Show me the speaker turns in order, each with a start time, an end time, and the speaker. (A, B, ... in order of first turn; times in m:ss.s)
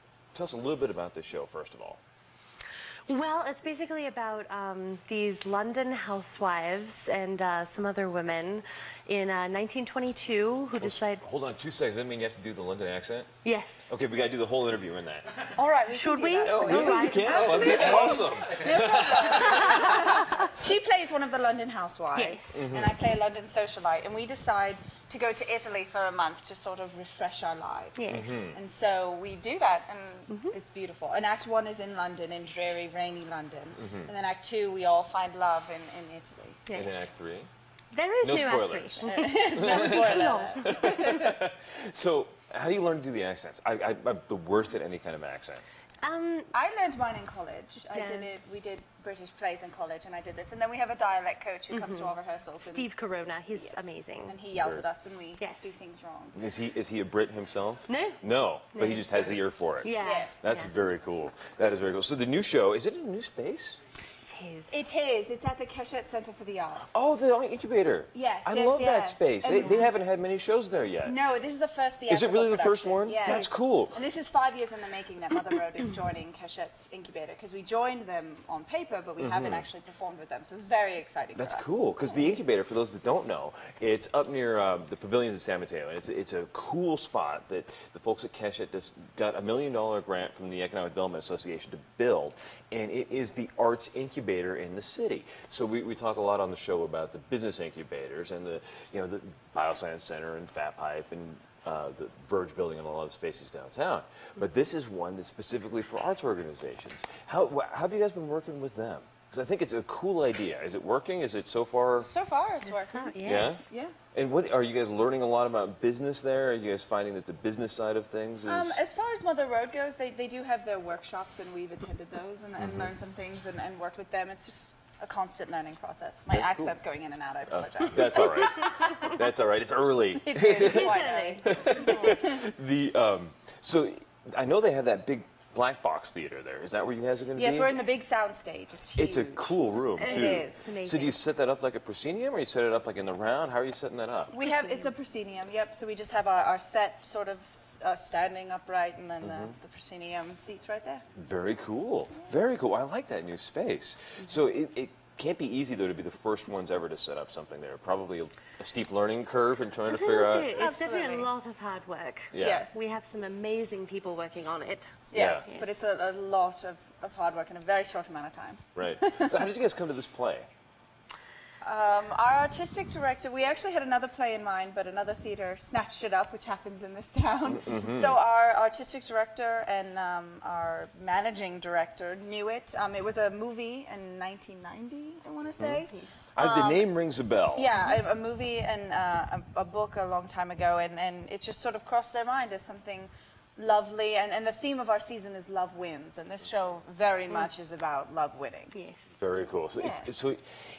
0:00.3-0:02.0 A
0:03.1-0:11.2 B
0:10.8-0:13.3 A
0:13.4-0:13.9 B
0:13.9-0:15.5 A
0:15.5-0:36.6 C
0:15.9-0:18.2 B
0:16.5-0:19.9 A
0:22.1-0:22.7 B
0:22.5-0:22.9 A
0:28.0-0:28.5 B
0:28.1-0:28.6 A
0:30.3-0:30.5 B
0:36.7-0:37.1 B
0:36.7-0:37.5 A
0:37.9-0:41.2 B
0:38.2-0:45.6 A
0:39.0-0:41.3 C
0:46.0-0:46.5 B
0:46.5-0:52.9 C
0:47.9-0:48.3 B
0:51.7-0:54.4 B
0:53.5-0:56.4 C
0:54.6-0:54.8 A
0:55.4-0:55.7 B
0:56.3-1:03.8 A
0:57.9-0:58.2 B
0:58.7-1:00.7 B
1:00.0-1:00.4 C
1:04.3-1:04.7 B
1:04.7-1:07.0 C
1:06.9-1:11.2 A
1:08.1-1:09.9 C
1:11.0-1:21.8 C
1:12.1-1:14.0 A
1:19.2-1:19.6 A
1:21.4-1:52.1 A
1:52.0-1:54.0 C
1:52.6-1:53.7 B
1:53.2-1:58.8 A
1:58.5-2:09.1 C
2:02.6-2:02.9 A
2:06.3-2:06.8 A
2:07.5-2:17.7 A
2:10.2-2:12.1 C
2:10.3-2:12.0 B
2:17.4-2:20.6 C
2:19.0-2:24.4 A
2:20.0-2:21.2 B
2:24.3-2:31.0 C
2:24.4-2:24.9 B
2:29.2-2:29.5 A
2:31.2-2:40.5 A
2:39.9-2:45.8 B
2:40.5-2:41.3 C
2:42.3-2:42.6 A
2:42.4-2:42.8 C
2:45.1-2:49.5 C
2:45.1-2:45.5 A
2:48.8-2:50.5 A
2:51.6-3:06.9 C
2:57.5-2:58.1 A
3:06.4-3:07.7 A
3:07.5-3:18.8 C
3:18.7-3:19.0 B
3:19.2-3:20.4 A
3:19.8-3:20.3 C